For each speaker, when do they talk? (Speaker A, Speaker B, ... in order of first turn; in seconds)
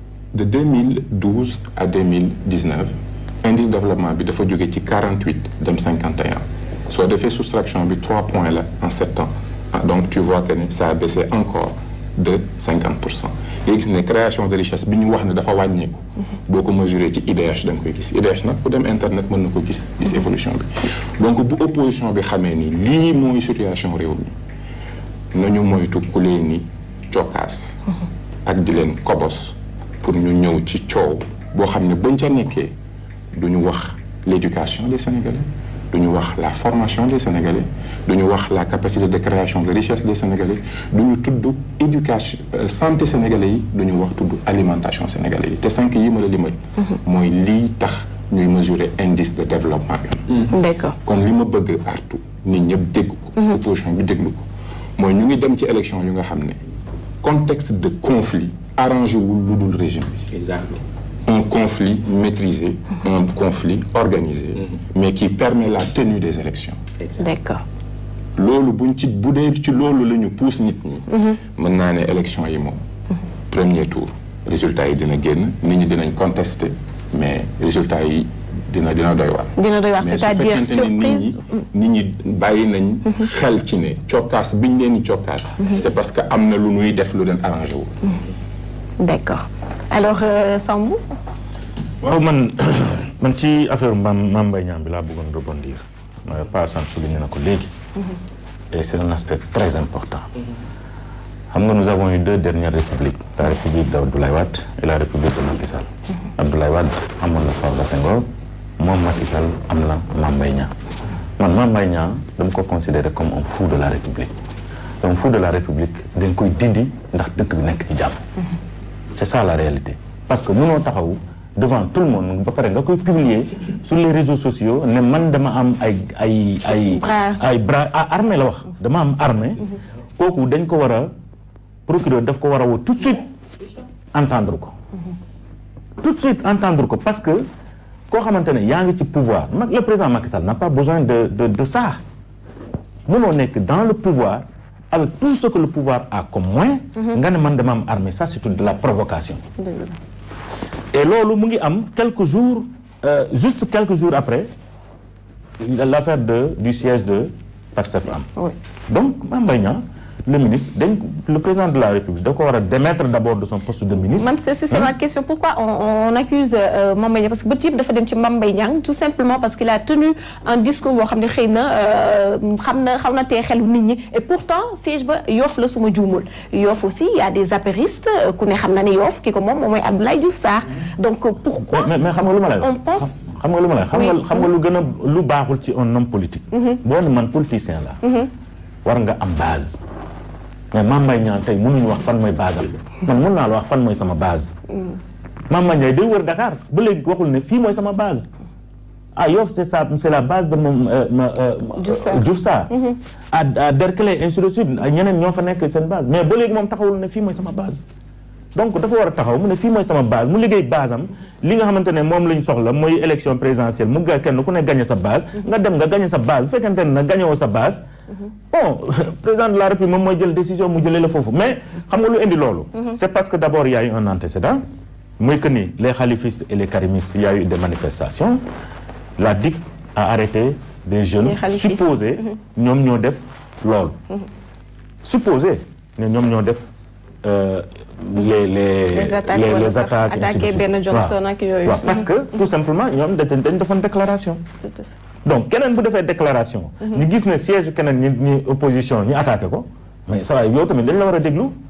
Speaker A: 0.3-24.3, 25.3-27.8, 28.4-32.7, 33.3-50.5, 51.0-54.5, 55.0-56.6, 57.2-66.8, 68.3-72.8, 73.5-87.9
Speaker B: 50.5-51.0, 67.2-67.6, 71.1-71.4, 79.6-81.4, 89.0-91.0, 127.0-127.4, 149.6-150.0, 164.2-181.9, 182.6-183.2, 183.9-184.5, 186.5-186.8, 188.0-188.3, 201.8-203.0, 231.2-232.0, 238.9-242.1
Speaker C: 92.0-97.7, 98.7-100.3, 101.5-108.3, 108.8-110.7, 111.4-114.3, 115.0-118.2, 119.1-129.6, 130.2-131.1, 131.8-133.2, 134.1-134.7, 136.0-137.5, 138.1-142.0, 143.1-149.4, 150.9-154.5, 155.6-158.3, 158.9-164.9, 181.7-188.0, 188.8-189.8, 190.7-194.6, 195.5-198.3, 199.2-202.7, 203.3-207.8, 208.5-217.8, 218.5-224.6, 225.2-228.4, 229.2-234.0, 235.0-236.7, 237.2-244.4, 245.2-251.5